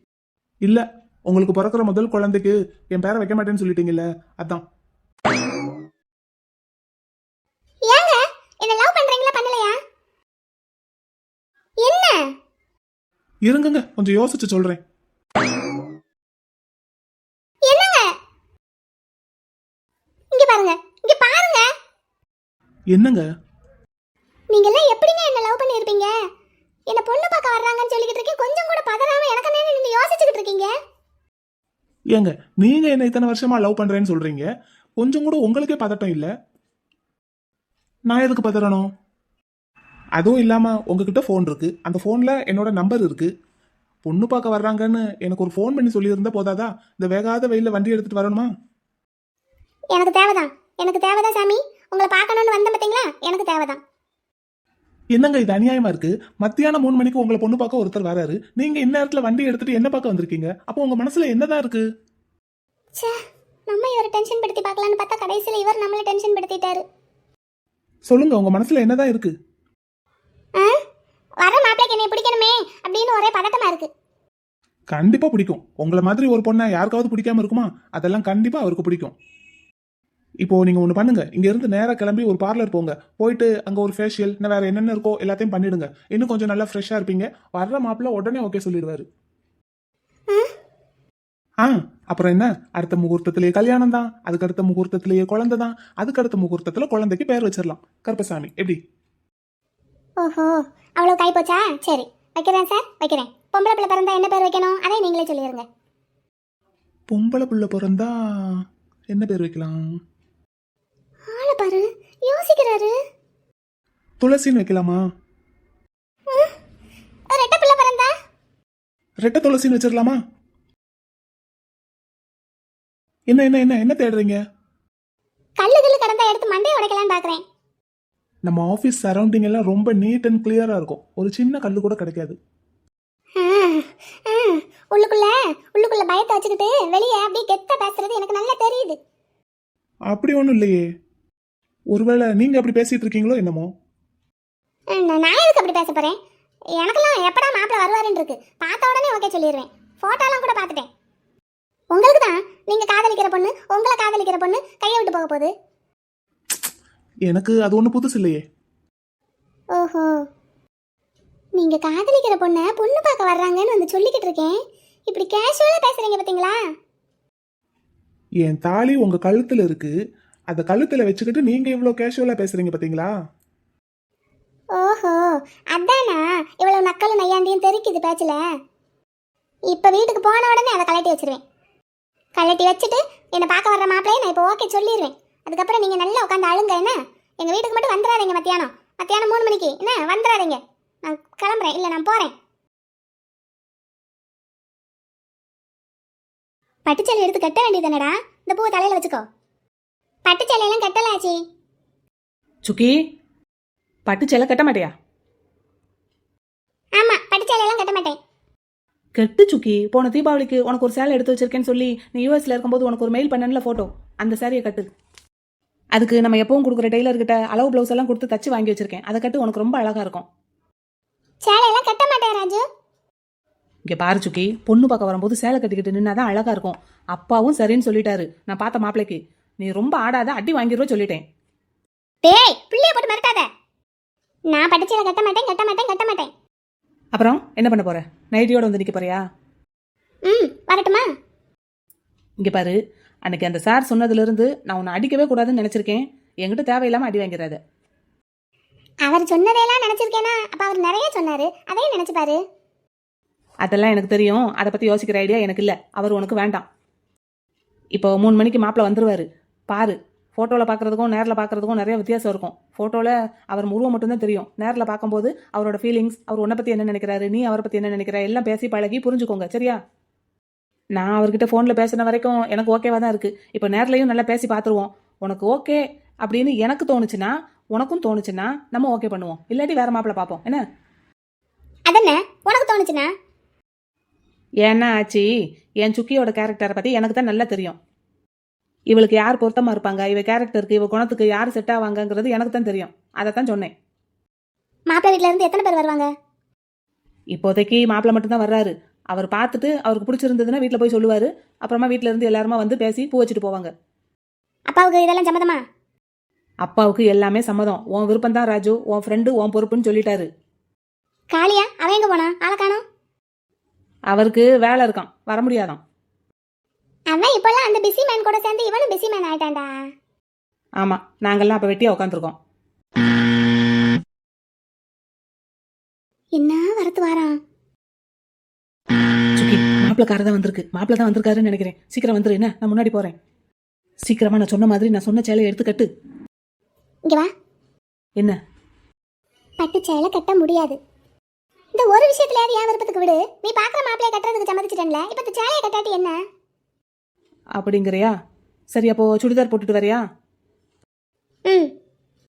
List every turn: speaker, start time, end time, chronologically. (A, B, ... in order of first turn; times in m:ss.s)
0:00.6-0:04.6 A
0:07.9-0:09.8 B
0:11.8-0:12.2 B
0:13.5-0:14.8 A
0:17.7-0:18.1 B
0:20.3-0:21.7 B
0:22.9-0:23.2 A
0:24.5-0:26.1 B
0:26.9-0:30.7 B
0:32.1-0:34.4 A
0:35.0-0:36.3 A
0:38.1-0:38.9 A
0:40.2-0:43.3 A
0:44.0-0:48.5 A
0:49.9-0:53.8 B
0:55.1-1:01.8 A
1:03.0-1:06.8 B
1:08.1-1:09.3 A
1:11.4-1:13.9 B
1:14.9-1:19.1 A
1:20.4-1:29.0 A
1:31.6-1:38.8 A
1:40.2-1:45.6 B
1:47.1-1:49.8 A
1:51.3-1:52.9 B
1:54.2-1:55.0 A
1:57.3-1:58.1 B
1:59.2-2:00.2 A
2:03.3-2:04.4 A
2:05.6-2:07.4 B
2:08.4-2:12.4 A
2:13.4-2:19.0 B
2:20.1-2:20.8 A
2:21.9-2:23.7 A
2:24.9-2:26.2 B
2:26.8-2:30.9 B
2:31.9-2:35.5 B
2:37.3-2:38.4 A
2:39.8-2:40.1 B
2:41.6-2:44.6 B
2:45.1-2:46.6 B
2:48.4-2:49.9 A
2:50.5-2:53.1 A
2:54.8-2:58.4 B
2:59.7-3:01.4 B
3:02.4-3:12.3 B
3:16.9-3:19.2 B
3:20.3-3:21.4 B
3:22.6-3:23.0 C
3:24.1-3:24.9 C
3:27.0-3:28.2 B
3:29.2-3:34.8 C
3:35.9-3:40.2 C
3:41.4-3:42.6 B
3:43.9-3:51.2 C
3:52.2-3:53.5 B
3:54.5-3:56.3 B
3:57.1-3:59.2 C
4:00.3-4:01.1 B
4:02.4-4:07.6 C
4:09.0-4:12.4 B
4:13.6-4:16.6 C
4:17.9-4:29.8 C
4:31.0-4:40.6 C
4:41.9-4:43.1 B
4:44.6-4:45.3 C
4:45.8-4:47.8 C
4:48.9-4:53.7 C
4:54.9-4:56.1 B
4:57.3-5:03.7 C
5:04.7-5:05.6 B
5:06.6-5:10.3 C
5:11.3-5:12.8 B
5:14.1-5:15.8 C
5:17.1-5:19.7 B
5:20.8-5:22.3 C
5:26.4-5:27.4 B
5:29.4-5:33.1 C
5:34.0-5:35.9 C
5:39.6-5:40.8 B
5:41.8-5:46.2 B
5:47.6-5:48.1 C
5:48.7-5:50.0 C